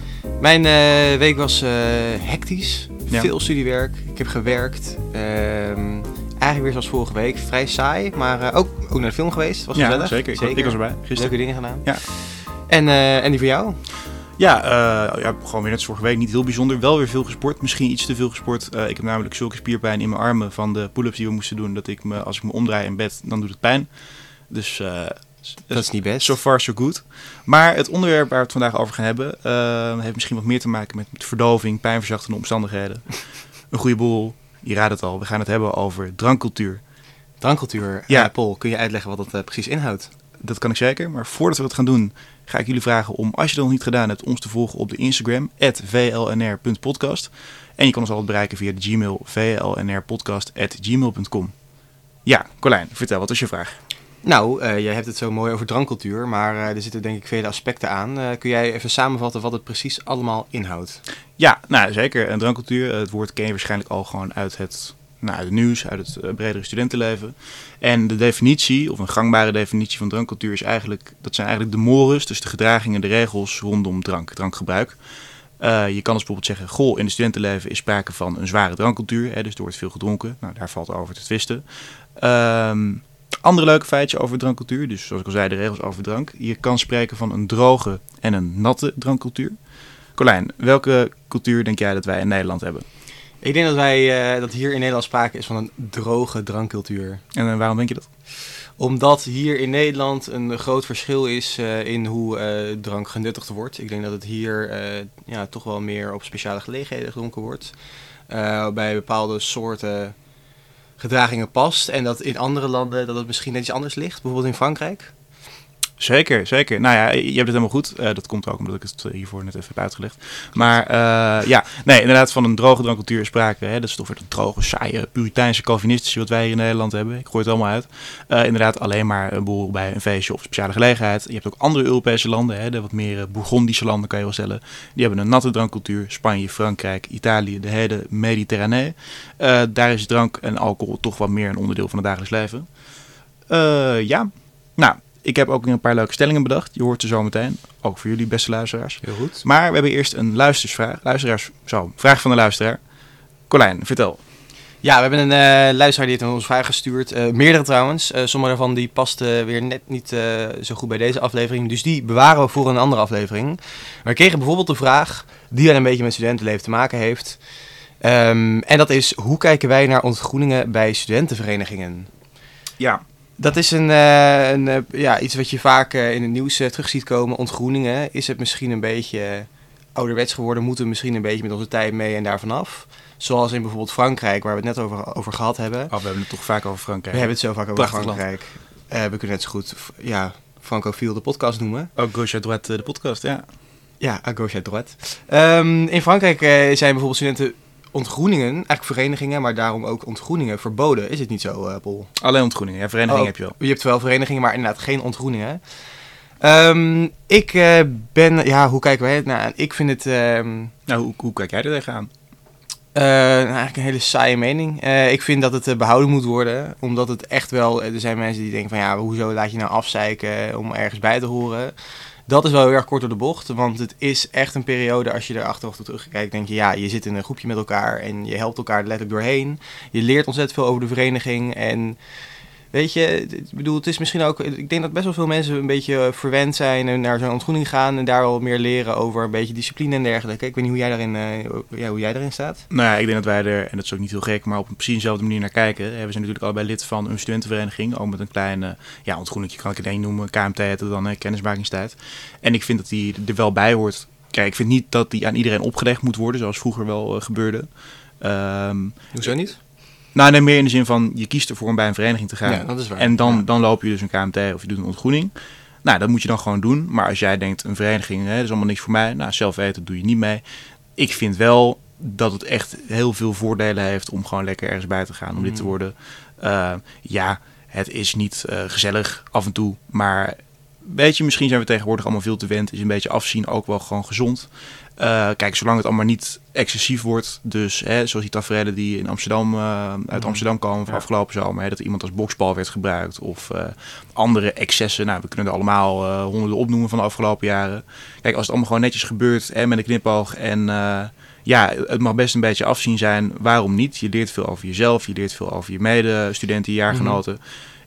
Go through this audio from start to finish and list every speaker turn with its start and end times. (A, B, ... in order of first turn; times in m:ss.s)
0:00.4-0:13.8 A
0:09.7-0:12.0 B
0:14.4-0:23.9 B
0:24.5-0:36.8 B
0:25.7-0:26.4 A
0:37.4-0:40.1 A
0:40.4-0:51.5 B
0:52.2-0:53.8 B
0:54.2-1:01.0 A
1:01.4-1:15.0 B
1:15.6-1:21.6 B
1:22.2-1:29.6 B
1:30.2-1:32.8 B
1:33.4-1:37.2 A
1:37.3-1:38.1 B
1:38.4-1:47.8 A
1:48.3-1:50.2 A
1:51.0-1:55.1 A
1:56.0-2:22.8 B
2:23.5-2:32.8 B
2:29.0-2:29.4 A
2:33.5-2:34.2 B
2:34.8-2:47.4 A
2:48.0-2:52.1 A
2:53.4-3:05.9 A
3:05.9-3:08.2 B
3:07.1-3:11.9 A
3:12.0-3:13.4 B
3:14.0-3:22.1 A
3:22.2-3:23.5 B
3:23.1-3:30.7 A
3:30.9-3:32.1 B
3:32.9-3:52.0 A
3:52.7-4:02.6 A
4:02.7-4:17.7 B
4:18.2-4:19.3 B
4:19.1-4:19.6 A
4:20.1-4:30.4 B
4:22.4-4:23.4 A
4:31.0-5:07.4 B
4:35.4-4:35.7 A
4:50.1-4:51.0 A
5:06.9-5:07.2 A